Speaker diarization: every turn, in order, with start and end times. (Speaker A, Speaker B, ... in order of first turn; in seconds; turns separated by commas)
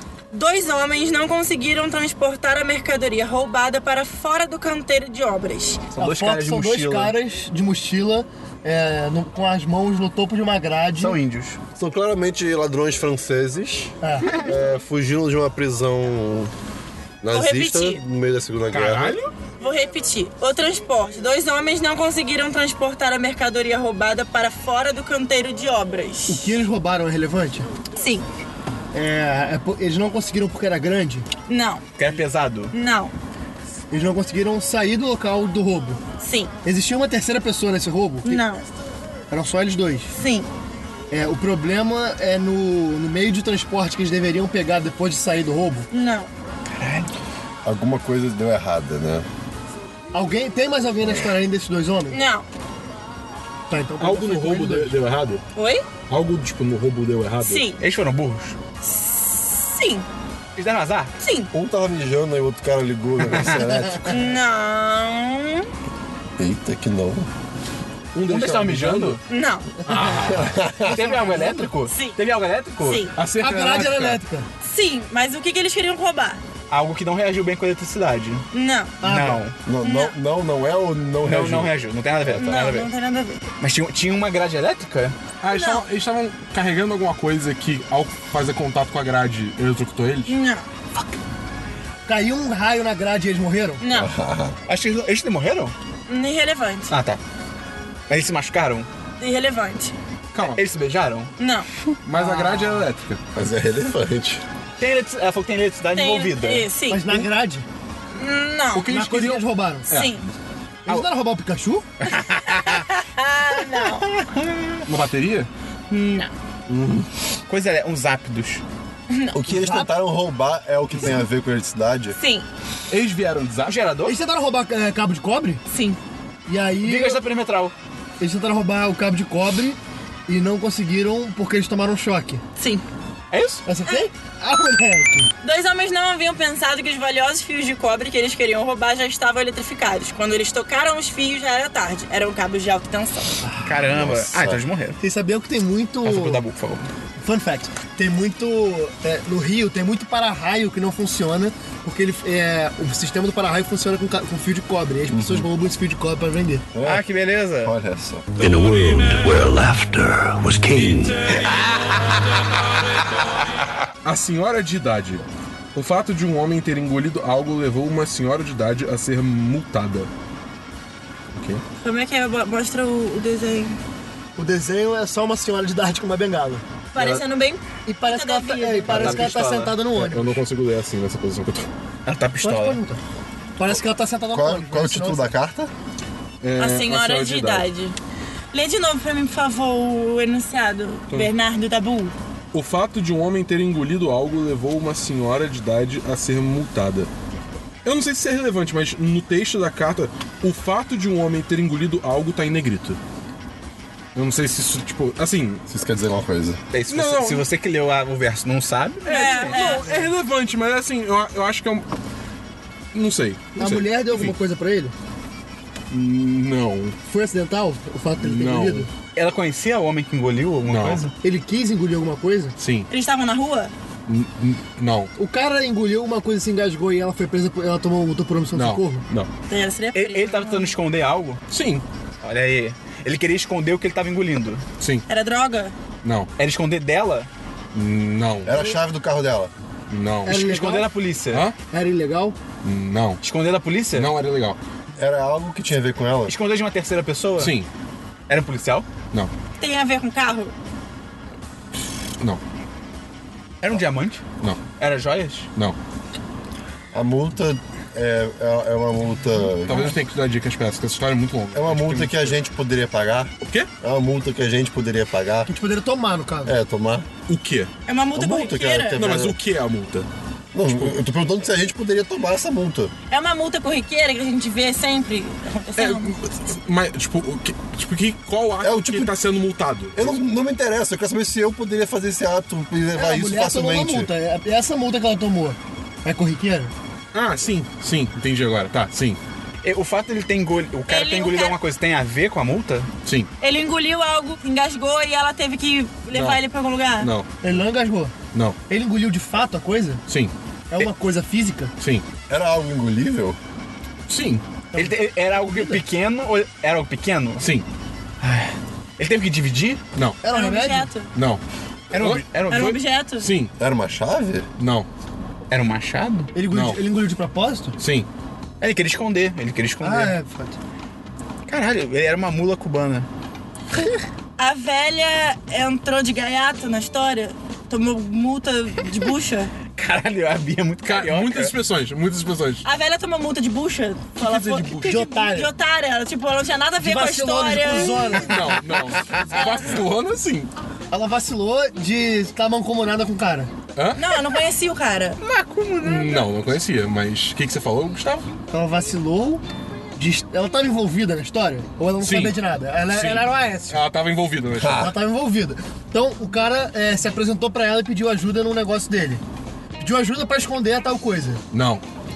Speaker A: 0.3-5.8, Speaker B: 6.0-7.1, Speaker C: 6.0-11.2, Speaker B: 11.0-11.6, Speaker D: 11.8-16.5, Speaker C: 14.0-14.3, Speaker D: 17.2-19.2, Speaker A: 17.3-18.0, Speaker B: 18.7-19.3, Speaker A: 19.6-26.6, Speaker C: 26.3-27.7, Speaker A: 28.0-28.3, Speaker C: 28.9-31.3, Speaker A: 31.5-31.9, Speaker B: 32.0-32.7, Speaker A: 32.7-33.1, Speaker C: 33.9-36.0, Speaker A: 36.2-36.5, Speaker C: 36.6-38.4, Speaker A: 38.2-38.7, Speaker C: 39.3-40.1, Speaker A: 40.1-40.5, Speaker C: 41.1-45.9, Speaker A: 45.9-46.3, Speaker B: 46.7-47.1, Speaker D: 47.6-49.3, Speaker C: 50.1-52.2, Speaker D: 51.0-51.4, Speaker A: 52.1-52.5, Speaker C: 53.7-55.0, Speaker E: 54.0-55.4, Speaker A: 55.6-55.9, Speaker E: 56.1-57.7, Speaker A: 57.4-57.8, Speaker B: 57.8-58.6, Speaker A: 58.8-60.1, Speaker B: 60.6-61.1, Speaker A: 61.2-61.5, Speaker D: 61.5-64.3, Speaker B: 63.3-63.6, Speaker A: 64.1-65.7, Speaker D: 66.4-67.3, Speaker E: 68.2-69.2, Speaker B: 68.3-69.2, Speaker A: 69.3-69.7, Speaker C: 69.9-70.3, Speaker E: 69.9-70.6, Speaker D: 70.2-71.3, Speaker B: 70.8-73.1, Speaker A: 71.8-72.2, Speaker A: 72.8-73.1, Speaker E: 73.2-74.2, Speaker C: 73.4-74.5, Speaker A: 74.6-76.4, Speaker B: 76.7-78.5, Speaker A: 78.5-79.0, Speaker C: 79.0-79.4, Speaker B: 79.0-79.6, Speaker D: 79.7-82.6, Speaker A: 79.8-80.2, Speaker B: 81.2-82.9, Speaker A: 82.4-83.4, Speaker B: 83.6-85.2, Speaker E: 85.4-90.4, Speaker A: 85.5-85.9, Speaker A: 90.3-90.7, Speaker C: 92.1-93.8, Speaker A: 93.8-94.1, Speaker D: 93.9-94.6, Speaker B: 94.7-95.7, Speaker A: 96.1-96.9, Speaker B: 96.9-97.2, Speaker B: 98.1-98.9, Speaker A: 99.2-99.9, Speaker E: 100.3-100.6, Speaker B: 100.4-101.3, Speaker A: 101.4-101.7, Speaker E: 102.0-103.2, Speaker A: 102.2-102.8, Speaker D: 103.3-104.4, Speaker B: 104.8-106.7, Speaker A: 105.9-107.2, Speaker C: 106.9-107.7, Speaker A: 108.1-108.9, Speaker E: 108.7-110.2, Speaker C: 108.9-109.9, Speaker A: 109.9-110.3, Speaker C: 110.9-111.9, Speaker B: 112.0-112.9, Speaker A: 112.5-114.1, Speaker B: 113.6-114.9, Speaker E: 114.9-115.5, Speaker A: 115.9-116.3, Speaker E: 116.7-117.1, Speaker B: 117.5-118.6, Speaker A: 119.1-119.4, Speaker D: 119.3-122.2, Speaker C: 119.5-119.9, Speaker A: 122.1-122.5, Speaker E: 122.9-123.8, Speaker B: 123.7-124.2, Speaker C: 124.0-125.6, Speaker A: 125.7-126.0, Speaker C: 126.5-127.2, Speaker B: 126.8-127.8, Speaker C: 128.2-132.4, Speaker A: 132.6-132.8, Speaker B: 133.3-133.6, Speaker C: 133.7-135.3, Speaker A: 135.4-143.4, Speaker C: 143.4-143.7, Speaker B: 143.6-145.0, Speaker D: 143.8-144.6, Speaker C: 145.0-146.4, Speaker B: 146.0-146.9, Speaker C: 147.2-156.7, Speaker D: 155.1-155.5, Speaker D: 156.7-157.1, Speaker B: 156.8-157.7, Speaker D: 157.6-158.3, Speaker F: 158.4-161.2, Speaker E: 164.0-165.2, Speaker E: 165.8-170.1, Speaker E: 171.3-171.6, Speaker A: 171.8-173.8, Speaker C: 174.4-176.7, Speaker A: 176.9-179.2, Speaker C: 177.9-180.4, Speaker B: 178.9-179.8, Speaker E: 179.9-181.7, Speaker B: 182.1-182.8, Speaker C: 182.4-183.0, Speaker C: 183.6-185.3, Speaker D: 184.3-185.7, Speaker E: 186.4-187.7, Speaker A: 186.6-187.9, Speaker A: 188.5-192.1, Speaker E: 192.5-197.1, Speaker E: 197.8-203.0, Speaker E: 204.2-205.6, Speaker D: 205.7-206.6, Speaker B: 206.7-209.8, Speaker E: 206.9-207.4, Speaker E: 209.1-211.9, Speaker A: 209.1-209.9, Speaker E: 212.9-214.4, Speaker C: 213.6-214.9, Speaker E: 215.9-217.0, Speaker C: 217.1-218.9, Speaker E: 218.2-218.9, Speaker B: 219.2-221.1, Speaker E: 220.7-221.1, Speaker C: 221.2-222.6, Speaker E: 222.6-222.9, Speaker A: 222.9-223.7, Speaker E: 224.1-225.1, Speaker C: 225.2-229.1, Speaker E: 228.5-229.3, Speaker A: 229.5-230.8, Speaker B: 229.9-231.4, Speaker E: 231.5-231.8, Speaker B: 232.2-234.7, Speaker E: 234.8-235.0, Speaker A: 235.1-235.7, Speaker E: 236.0-236.3, Speaker B: 236.4-237.3, Speaker E: 237.7-238.6, Speaker D: 238.4-239.5, Speaker E: 239.9-240.5, Speaker C: 240.2-240.9, Speaker B: 240.3-241.5, Speaker E: 241.3-241.6, Speaker C: 241.7-242.4, Speaker E: 242.6-243.2, Speaker B: 243.2-244.1, Speaker E: 243.9-244.6, Speaker D: 245.0-246.4, Speaker B: 246.3-247.6, Speaker E: 247.4-247.7, Speaker B: 248.3-248.9, Speaker A: 249.6-250.5, Speaker B: 253.6-254.3, Speaker B: 254.8-255.5, Speaker D: 256.9-260.0, Speaker E: 259.6-262.4, Speaker D: 261.5-265.5, Speaker E: 263.4-263.7, Speaker C: 265.5-266.6, Speaker D: 266.4-267.1, Speaker E: 267.3-267.7, Speaker A: 267.9-269.1, Speaker D: 268.1-269.4, Speaker E: 268.9-270.1, Speaker D: 270.5-272.9, Speaker E: 270.7-271.0, Speaker A: 273.1-276.2, Speaker E: 275.8-280.2, Speaker D: 278.6-279.1, Speaker D: 279.9-284.1, Speaker C: 282.9-286.7, Speaker E: 287.1-289.2, Speaker B: 289.6-292.9, Speaker A: 290.9-291.6, Speaker E: 293.1-293.3, Speaker A: 293.4-297.1, Speaker E: 296.1-296.4, Speaker E: 297.0-297.6, Speaker C: 297.4-300.0, Speaker E: 298.3-298.6, Speaker E: 300.1-300.3, Speaker C: 300.7-301.7, Speaker E: 301.8-302.1, Speaker D: 302.3-303.4, Speaker E: 304.1-304.4, Speaker C: 304.7-305.8, Speaker B: 304.8-307.4, Speaker E: 307.4-307.7, Speaker B: 308.2-309.8, Speaker E: 309.9-310.2, Speaker C: 310.2-310.9, Speaker A: 310.3-311.1, Speaker E: 311.1-311.4, Speaker B: 311.9-312.8, Speaker E: 311.9-313.5, Speaker A: 312.5-313.3, Speaker D: 313.6-314.5, Speaker E: 314.6-314.9, Speaker B: 315.5-316.3, Speaker C: 316.3-317.8, Speaker E: 316.5-316.8, Speaker E: 317.8-318.1, Speaker B: 318.6-320.2, Speaker C: 319.8-320.6, Speaker B: 321.5-323.1, Speaker A: 324.4-329.5, Speaker B: 329.7-331.5, Speaker E: 330.8-332.7, Speaker A: 332.6-338.3, Speaker E: 334.2-335.1, Speaker C: 334.7-335.5, Speaker C: 336.8-338.6, Speaker E: 338.2-340.5, Speaker B: 338.9-339.3, Speaker C: 340.9-343.5, Speaker E: 343.8-344.2, Speaker A: 343.9-345.2, Speaker B: 345.2-346.3, Speaker E: 345.8-348.3, Speaker C: 348.5-349.4, Speaker C: 350.0-353.8, Speaker E: 352.0-354.9, Speaker D: 354.6-354.9, Speaker C: 354.7-359.2, Speaker C: 359.8-361.4, Speaker E: 361.5-361.8